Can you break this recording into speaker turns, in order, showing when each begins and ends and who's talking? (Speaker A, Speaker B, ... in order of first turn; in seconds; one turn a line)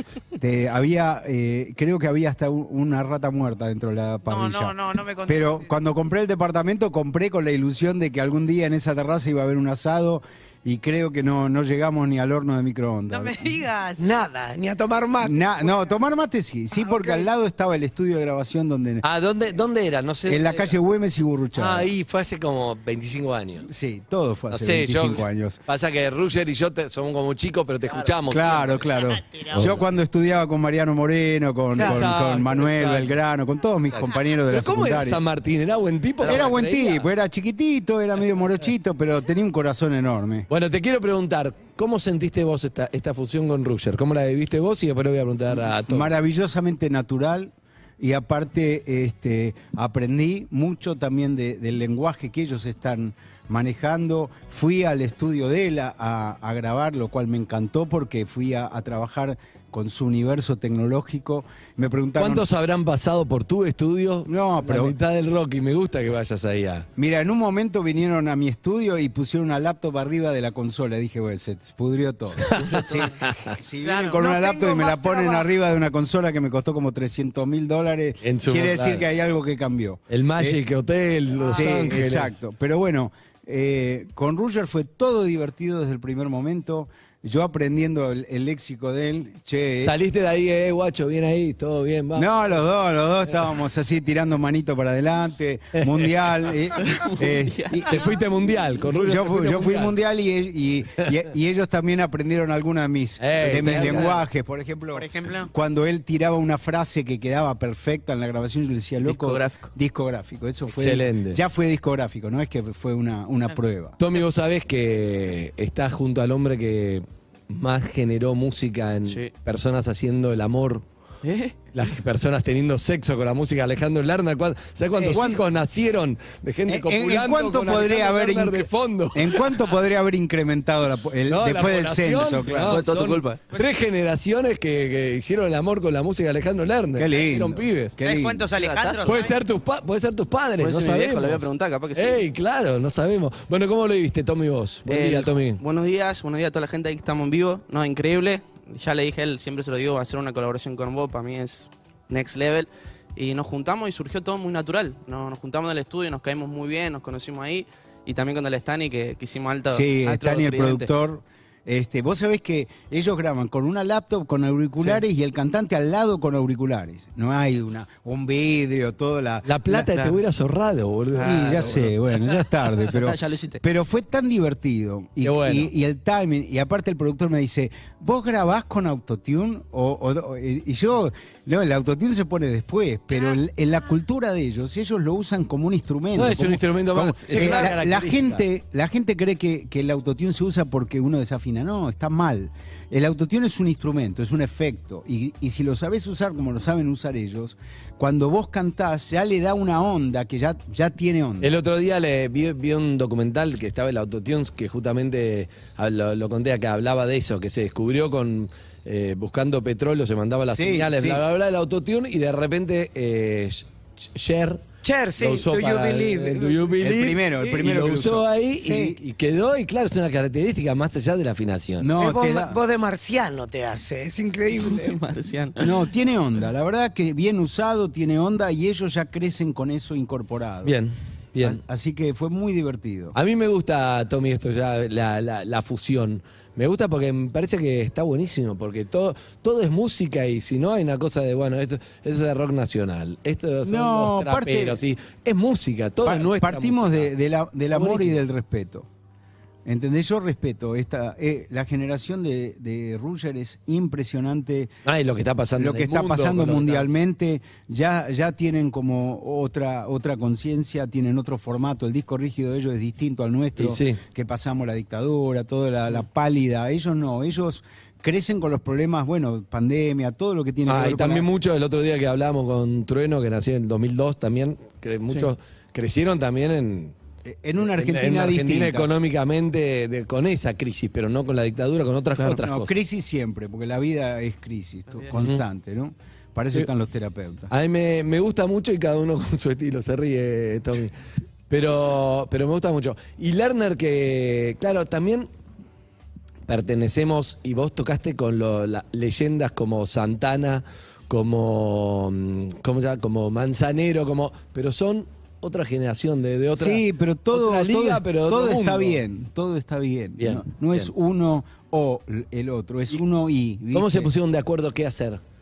Speaker A: 0.4-4.8
Speaker B: 4.3-5.7
Speaker A: 5.3-13.6
Speaker B: 13.1-14.1
Speaker C: 14.0-15.4
Speaker A: 15.2-19.1
Speaker B: 16.7-17.3
Speaker D: 19.0-20.8
Speaker A: 20.3-21.9
Speaker D: 21.6-23.7
Speaker A: 23.6-25.6
Speaker D: 24.5-28.8
Speaker A: 28.3-35.2
Speaker D: 29.5-29.8
Speaker D: 31.8-33.2
Speaker C: 31.8-32.1
Speaker D: 34.5-37.1
Speaker A: 36.2-40.5
Speaker D: 40.5-46.1
Speaker A: 45.5-62.5
Speaker D: 62.2-66.9
Speaker A: 64.3-65.0
Speaker A: 67.0-72.5
Speaker D: 72.4-73.5
Speaker A: 73.5-80.6
Speaker B: 73.8-75.4
Speaker C: 74.2-74.5
Speaker D: 78.2-79.1
Speaker D: 80.1-82.4
Speaker A: 81.5-90.0
Speaker D: 89.8-92.3
Speaker A: 92.2-114.0
Speaker D: 95.8-96.1
Speaker E: 96.8-97.8
Speaker D: 97.9-100.0
Speaker D: 103.2-104.2
Speaker B: 105.0-105.5
Speaker E: 109.0-109.7
Speaker D: 110.8-111.4
Speaker D: 114.0-120.8
Speaker E: 119.1-119.3
Speaker E: 121.2-121.6
Speaker D: 121.7-129.6
Speaker A: 125.0-125.4
Speaker A: 126.7-132.9
Speaker D: 131.3-138.0
Speaker E: 132.7-133.5
Speaker A: 137.0-138.5
Speaker B: 138.0-139.4
Speaker E: 138.5-139.3
Speaker D: 139.0-145.6
Speaker E: 140.6-142.2
Speaker E: 144.9-160.9
Speaker A: 159.7-169.9
Speaker D: 169.4-172.4
Speaker E: 169.9-170.2
Speaker E: 171.1-171.7
Speaker A: 171.2-201.5
Speaker E: 172.9-173.6
Speaker D: 175.2-175.7
Speaker D: 186.2-188.4
Speaker D: 201.4-214.6
Speaker A: 210.5-211.2
Speaker C: 214.8-216.9
Speaker D: 215.2-221.9
Speaker A: 216.8-219.0
Speaker A: 221.8-222.6
Speaker C: 222.0-225.0
Speaker E: 224.5-225.7
Speaker A: 225.6-230.8
Speaker D: 230.6-231.6
Speaker A: 231.4-233.2
Speaker D: 233.2-247.1
Speaker A: 243.6-244.8
Speaker A: 246.0-248.9
Speaker D: 247.7-248.2
Speaker A: 249.7-254.8
Speaker D: 254.9-256.9
Speaker A: 255.6-271.3
Speaker D: 263.6-264.0
Speaker D: 270.7-276.9
Speaker A: 277.2-278.9
Speaker D: 277.8-282.7
Speaker A: 282.2-287.5
Speaker D: 287.5-290.9
Speaker D: 291.5-295.3
Speaker D: 296.5-309.0
Speaker A: 306.5-314.1
Speaker D: 310.2-310.9
Speaker D: 313.7-315.2